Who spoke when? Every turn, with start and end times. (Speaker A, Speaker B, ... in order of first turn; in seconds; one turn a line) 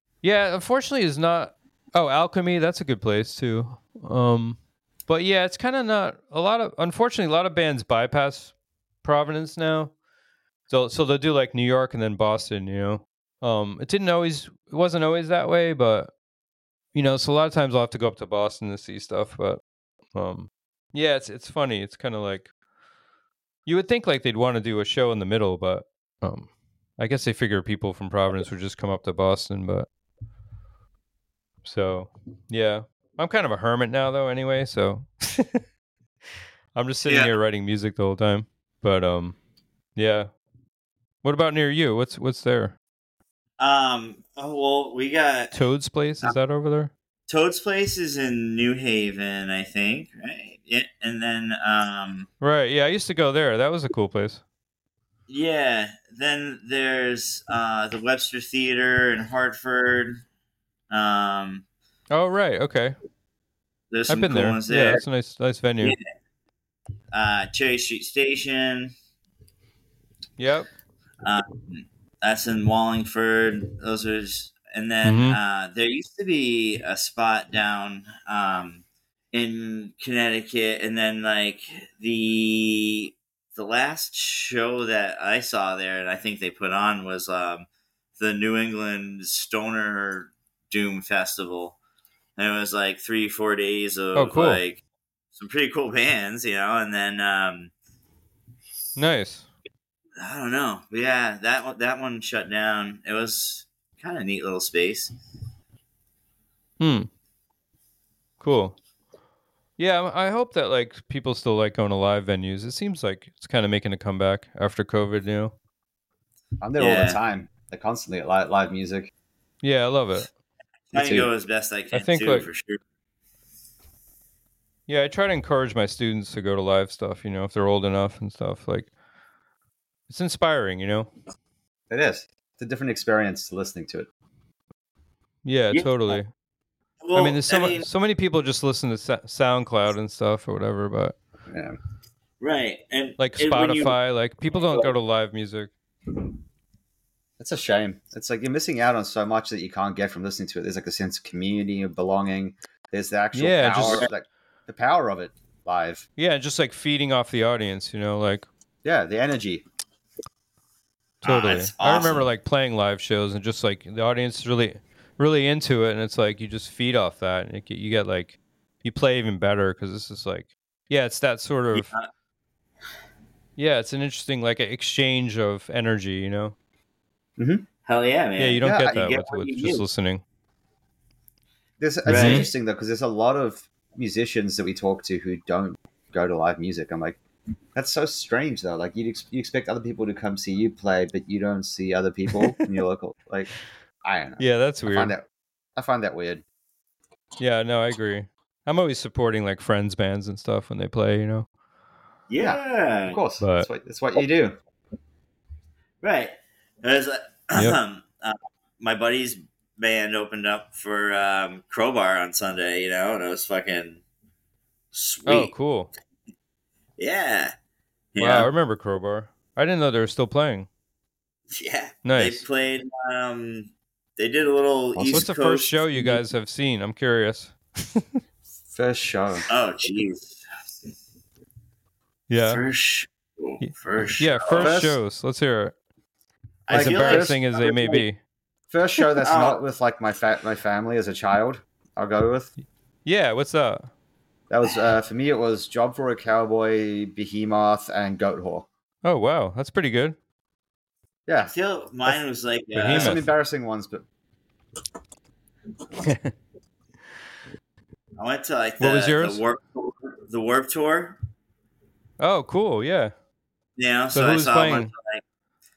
Speaker A: 0.2-9.9
Speaker A: 10.7-16.1
Speaker A: 16.9-19.6
Speaker A: 20.1-22.5
Speaker A: 23.6-29.9
Speaker A: 31.6-35.6
Speaker A: 36.7-39.4
Speaker A: 40.0-40.3
Speaker A: 41.2-42.7
Speaker B: 43.6-45.5
Speaker A: 45.5-46.9
Speaker B: 47.3-52.3
Speaker A: 52.4-54.4
Speaker B: 55.3-60.2
Speaker B: 60.9-61.6
Speaker A: 62.1-63.0
Speaker B: 63.9-65.0
Speaker A: 64.1-65.9
Speaker B: 67.1-68.9
Speaker A: 70.4-70.7
Speaker B: 71.2-91.8
Speaker A: 75.0-75.4
Speaker B: 92.4-94.8
Speaker A: 94.1-94.6
Speaker B: 95.3-97.7
Speaker A: 99.0-99.5
Speaker B: 100.2-105.1
Speaker A: 106.8-107.1
Speaker A: 108.4-108.7
Speaker A: 109.8-115.5
Speaker C: 116.6-119.1
Speaker B: 116.8-117.2
Speaker A: 119.6-120.3
Speaker B: 120.9-122.8
Speaker C: 120.9-121.3
Speaker A: 121.9-122.5
Speaker A: 124.9-128.9
Speaker A: 130.1-131.1
Speaker C: 131.9-134.1
Speaker A: 135.4-136.3
Speaker B: 135.7-136.2
Speaker B: 137.0-137.8
Speaker A: 137.1-141.2
Speaker C: 141.5-141.8
Speaker B: 142.4-143.9
Speaker A: 143.2-145.7
Speaker B: 144.6-144.9
Speaker C: 147.4-156.0
Speaker A: 153.3-154.1
Speaker A: 156.2-158.4
Speaker C: 158.8-159.6
Speaker A: 161.2-171.9
Speaker B: 161.2-162.3
Speaker B: 171.7-172.1
Speaker A: 173.6-176.5
Speaker C: 177.4-177.6
Speaker B: 177.8-179.8
Speaker A: 178.4-180.2
Speaker C: 178.6-179.0
Speaker C: 181.8-187.2
Speaker A: 182.0-182.5
Speaker B: 182.1-182.5
Speaker C: 187.7-193.5
Speaker C: 194.0-195.2
Speaker A: 194.4-195.1
Speaker C: 195.8-196.4
Speaker A: 197.4-201.5
Speaker B: 202.3-203.2
Speaker C: 202.4-204.6
Speaker A: 203.4-203.7
Speaker B: 206.0-214.0
Speaker A: 207.5-207.8
Speaker B: 214.9-215.5
Speaker A: 215.2-215.9
Speaker B: 217.0-217.5
Speaker B: 218.1-218.5
Speaker A: 218.2-220.7
Speaker B: 221.5-226.2
Speaker A: 222.0-222.4
Speaker C: 224.9-225.2
Speaker A: 225.1-228.1
Speaker C: 228.7-229.4
Speaker B: 229.5-230.4
Speaker A: 232.3-232.6
Speaker B: 232.3-234.8
Speaker A: 233.6-235.7
Speaker C: 234.5-235.0
Speaker B: 236.7-238.1
Speaker A: 236.7-238.2
Speaker C: 236.7-237.4
Speaker C: 238.7-242.5
Speaker B: 239.2-239.6
Speaker A: 243.0-243.9
Speaker C: 244.5-248.7
Speaker A: 249.0-250.2
Speaker C: 251.3-251.5
Speaker B: 251.4-253.2
Speaker A: 252.7-253.2
Speaker C: 252.9-254.0
Speaker A: 256.0-256.3
Speaker B: 258.2-261.2
Speaker A: 258.8-259.4
Speaker A: 262.2-263.1
Speaker B: 263.8-265.2
Speaker A: 264.1-264.9